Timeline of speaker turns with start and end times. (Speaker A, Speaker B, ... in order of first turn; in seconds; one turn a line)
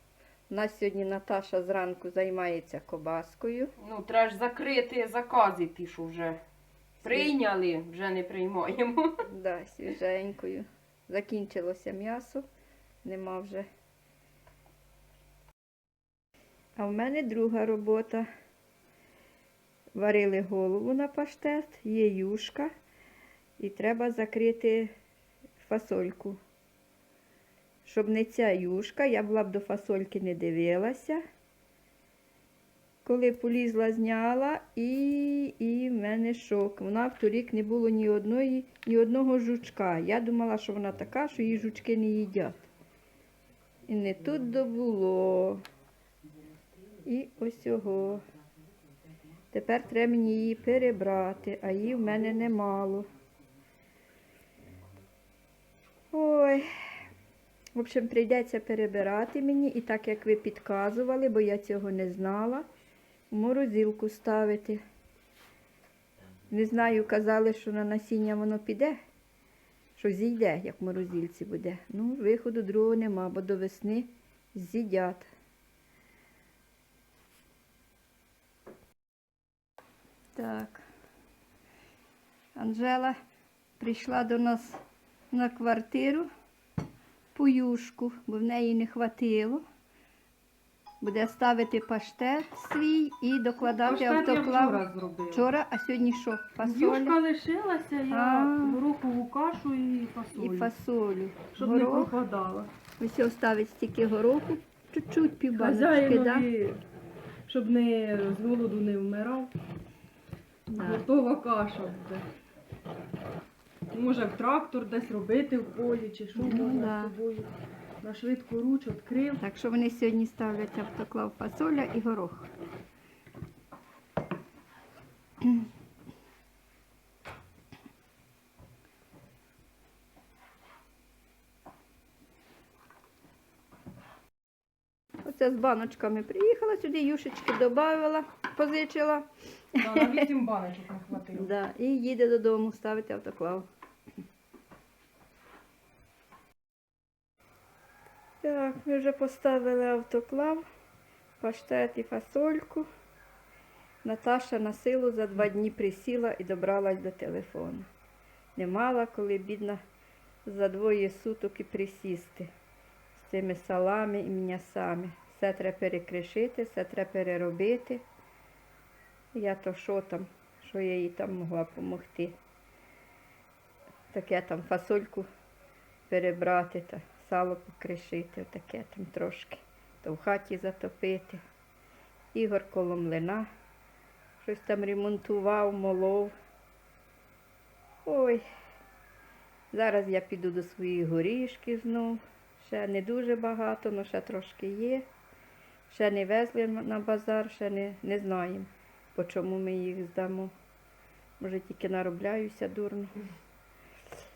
Speaker A: 0.5-3.7
Speaker B: 3.8-6.4
Speaker B: 7.0-9.1
Speaker A: 7.0-7.3
Speaker A: 9.2-12.4
Speaker A: 13.0-13.7
Speaker A: 16.8-18.3
Speaker A: 19.9-22.7
Speaker A: 23.6-24.9
Speaker A: 25.6-26.4
Speaker A: 27.9-31.2
Speaker A: 33.0-42.7
Speaker A: 43.9-45.6
Speaker A: 47.0-48.2
Speaker A: 49.5-53.1
Speaker A: 56.1-56.7
Speaker A: 57.8-62.7
Speaker A: 63.3-64.8
Speaker A: 66.5-69.0
Speaker A: 70.0-75.3
Speaker A: 80.3-80.8
Speaker A: 82.6-83.2
Speaker A: 83.8-86.3
Speaker A: 87.3-89.6
Speaker A: 91.0-97.2
Speaker B: 93.7-95.5
Speaker B: 96.6-100.7
Speaker A: 98.1-98.8
Speaker A: 100.3-102.1
Speaker B: 101.5-102.7
Speaker A: 103.0-106.5
Speaker B: 105.5-106.8
Speaker B: 107.5-109.5
Speaker A: 110.7-111.1
Speaker B: 110.7-112.3
Speaker B: 113.9-117.5
Speaker A: 116.4-117.1
Speaker B: 118.0-119.4
Speaker A: 119.4-122.5
Speaker A: 135.2-140.2
Speaker B: 139.8-141.5
Speaker A: 141.3-143.7
Speaker A: 148.4-150.6
Speaker A: 151.4-152.9
Speaker A: 154.0-157.9
Speaker A: 158.6-159.8
Speaker A: 160.5-162.5
Speaker A: 163.1-168.0
Speaker A: 169.3-172.4
Speaker A: 174.1-175.3
Speaker A: 176.1-181.4
Speaker A: 182.3-183.5
Speaker A: 184.4-186.3
Speaker A: 188.1-188.4
Speaker A: 189.7-195.1
Speaker A: 195.9-200.5
Speaker A: 201.4-203.2